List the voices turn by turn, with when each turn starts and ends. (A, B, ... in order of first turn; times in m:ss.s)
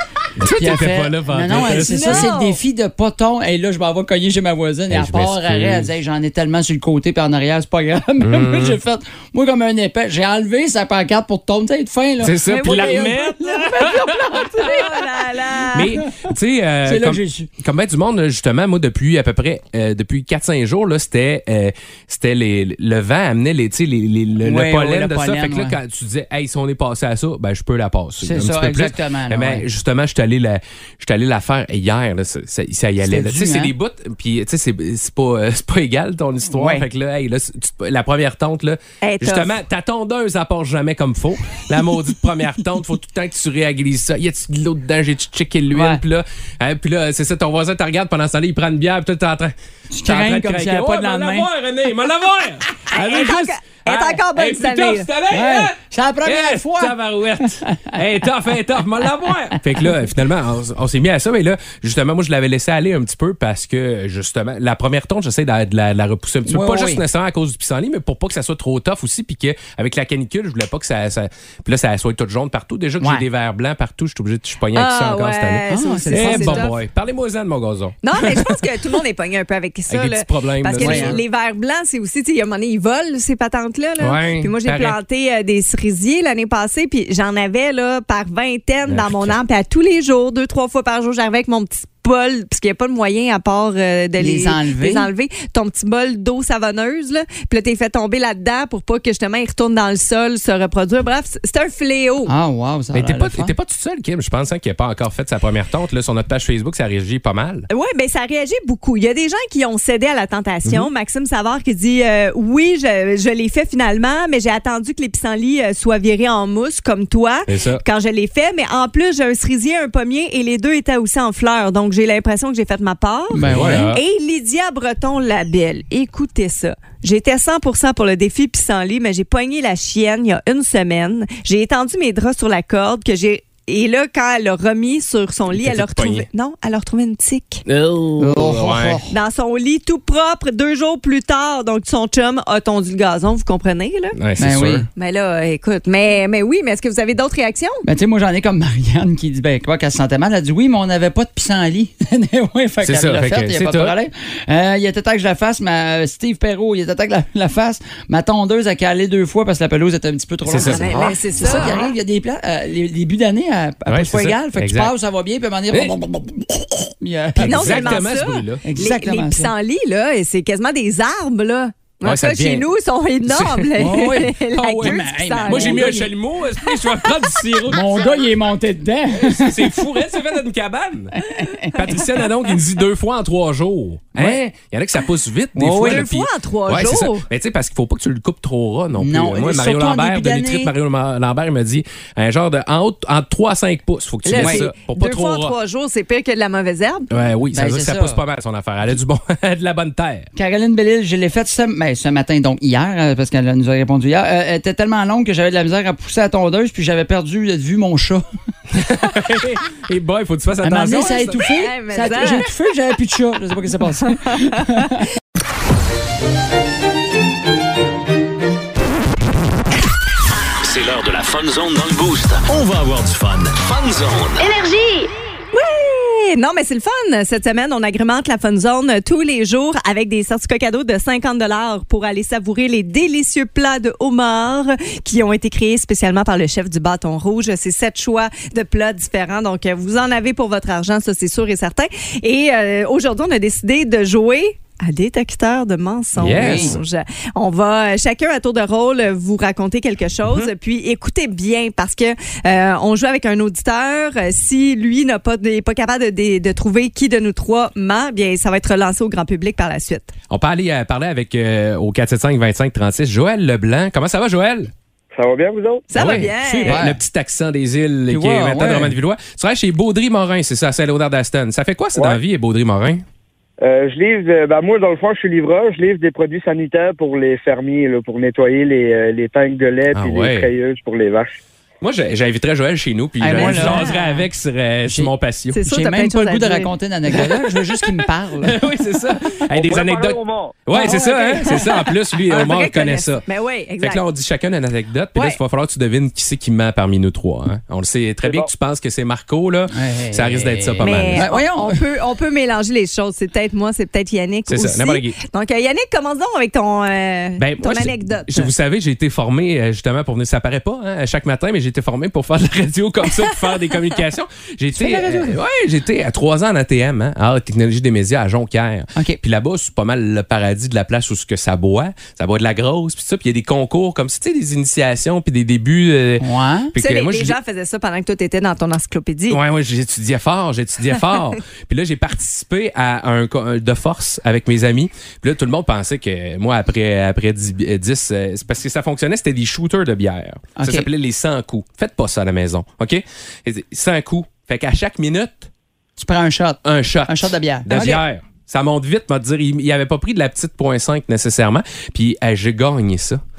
0:00.4-0:02.3 A
0:00.4-0:14.8 B
0:01.6-0:02.6 C
0:04.9-0:05.9 A
0:08.2-0:08.8 A
0:12.2-0:14.5 A
0:12.4-0:16.0 C
0:15.7-1:18.6 A
0:16.8-0:17.5 B
0:24.4-0:25.8 B
0:28.2-0:29.6 B
0:33.0-0:33.7 B
0:36.5-0:36.8 B
0:39.0-0:39.6 C
0:45.7-0:46.0 B
0:49.9-0:51.5 B
0:52.9-0:55.1 C
0:55.3-0:58.2 B
0:59.5-0:59.9 B
1:06.4-1:07.0 B
1:13.0-1:13.2 B
1:14.7-1:16.7 C
1:15.7-1:16.7 B
1:18.0-1:42.3 C
1:19.9-1:21.2 A
1:20.8-1:21.2 B
1:24.0-1:25.0 A
1:28.9-1:29.4 A
1:34.2-1:35.1 B
1:42.2-1:43.5 B
1:42.9-1:47.7 A
1:47.7-2:17.6 C
1:57.5-1:57.8 A
2:03.3-2:03.9 B
2:03.4-2:04.0 A
2:15.5-2:16.2 A
2:17.7-2:19.0 A
2:18.2-2:19.1 B
2:19.1-2:24.2 C
2:24.2-2:24.9 A
2:24.4-2:24.9 B
2:25.0-2:27.8 C
2:27.8-2:48.1 B
2:32.8-2:33.9 A
2:40.5-2:41.8 A
2:40.6-2:41.9 C
2:43.9-2:44.9 A
2:47.4-2:48.6 A
2:47.4-2:56.1 C
2:48.6-2:49.5 B
2:52.0-2:52.6 A
2:53.3-2:58.3 A
2:53.8-2:56.1 B
2:56.7-2:57.1 C
2:57.7-3:00.0 B
2:59.1-3:15.5 A
3:01.2-3:02.2 B
3:04.2-3:04.4 B
3:05.6-3:06.0 B
3:05.8-3:07.2 C
3:08.9-3:10.7 B
3:14.2-3:17.1 C
3:14.3-3:14.6 B
3:17.1-3:20.3 A
3:17.5-3:18.2 B
3:20.3-3:28.2 B
3:28.7-3:31.4 A
3:30.6-3:35.0 B
3:31.3-3:32.5 C
3:34.1-3:34.9 C
3:40.6-3:44.5 D
3:44.4-4:20.1 C
4:06.2-4:06.8 A
4:06.3-4:06.8 B
4:20.3-4:24.7 A
4:25.1-4:25.9 E
4:25.9-4:26.8 C
4:26.0-4:33.0 A
4:26.2-4:27.0 B
4:28.1-4:29.0 B
4:33.6-4:41.4 E
4:39.9-4:40.5 A
4:41.8-4:45.6 A
4:43.2-4:44.0 B
4:43.3-4:44.2 C
4:44.8-4:45.1 B
4:45.5-4:46.7 C
4:45.6-4:48.6 B
4:48.4-4:53.2 A
4:49.5-4:50.6 E
4:50.7-4:51.2 B
4:50.7-4:54.0 C
4:53.8-5:01.3 A
4:58.2-4:58.5 E
4:59.7-5:01.8 B
5:00.8-5:08.5 C
5:04.5-5:05.2 A
5:07.4-5:27.4 A
5:14.7-5:15.4 B
5:18.9-5:19.2 B
5:26.2-5:26.7 B
5:26.8-5:29.4 C
5:29.3-5:45.5 A
5:40.6-5:40.9 B
5:46.0-5:48.0 B
5:46.6-5:53.2 A